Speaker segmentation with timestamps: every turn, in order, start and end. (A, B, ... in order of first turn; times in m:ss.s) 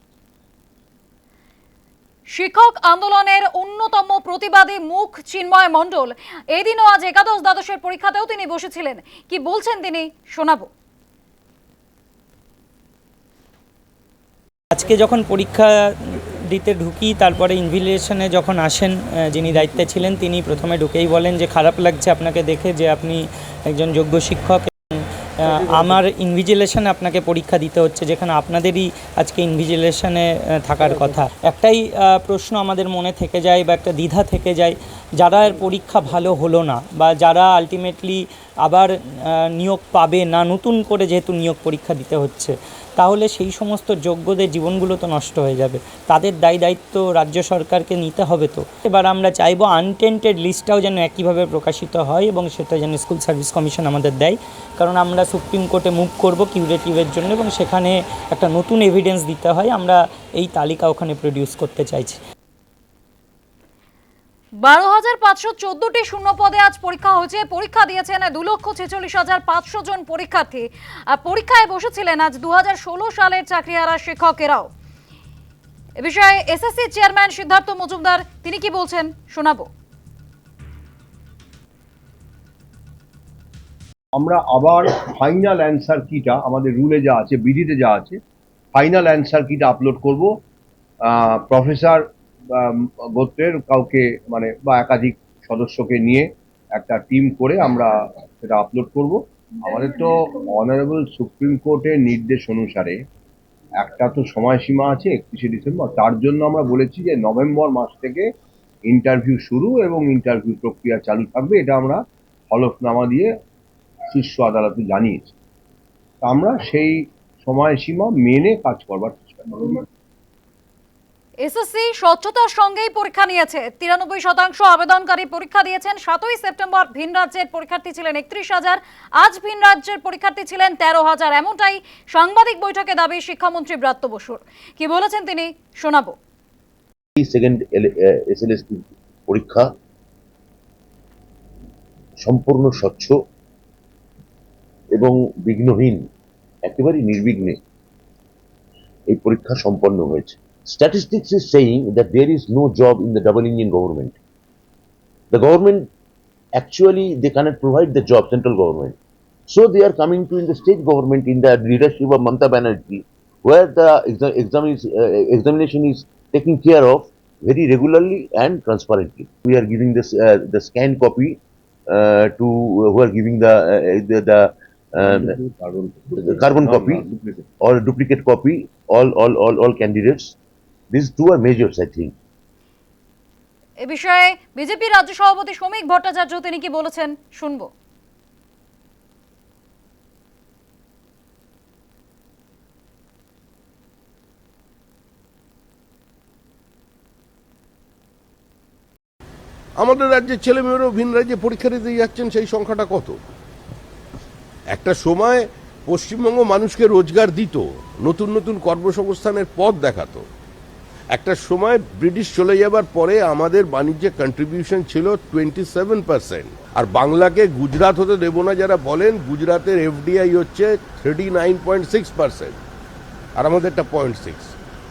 0:02.3-0:10.7 A
0:14.7-1:02.2 B
1:04.6-1:14.7 A
1:16.0-1:19.7 A
1:24.2-1:28.2 C
1:28.7-1:30.3 C
1:31.1-1:32.0 C
1:32.6-1:43.0 C
1:43.8-1:48.3 C
1:48.9-1:53.3 C
1:54.1-1:55.3 C
1:56.2-1:59.8 C
2:01.4-2:16.1 A
2:17.2-2:19.7 D
2:22.2-2:23.1 D
2:24.9-2:26.1 D
2:26.6-2:27.6 D
2:29.1-2:34.2 D
2:35.3-2:35.9 D
2:36.6-2:39.0 D
2:39.5-2:55.3 D
2:55.0-2:57.4 C
2:56.2-2:57.0 D
2:57.6-3:00.4 D
3:00.9-3:02.1 D
3:03.8-3:07.7 A
3:19.8-3:23.2 E
3:24.7-3:30.2 E
3:31.1-3:42.6 E
3:43.4-3:44.5 E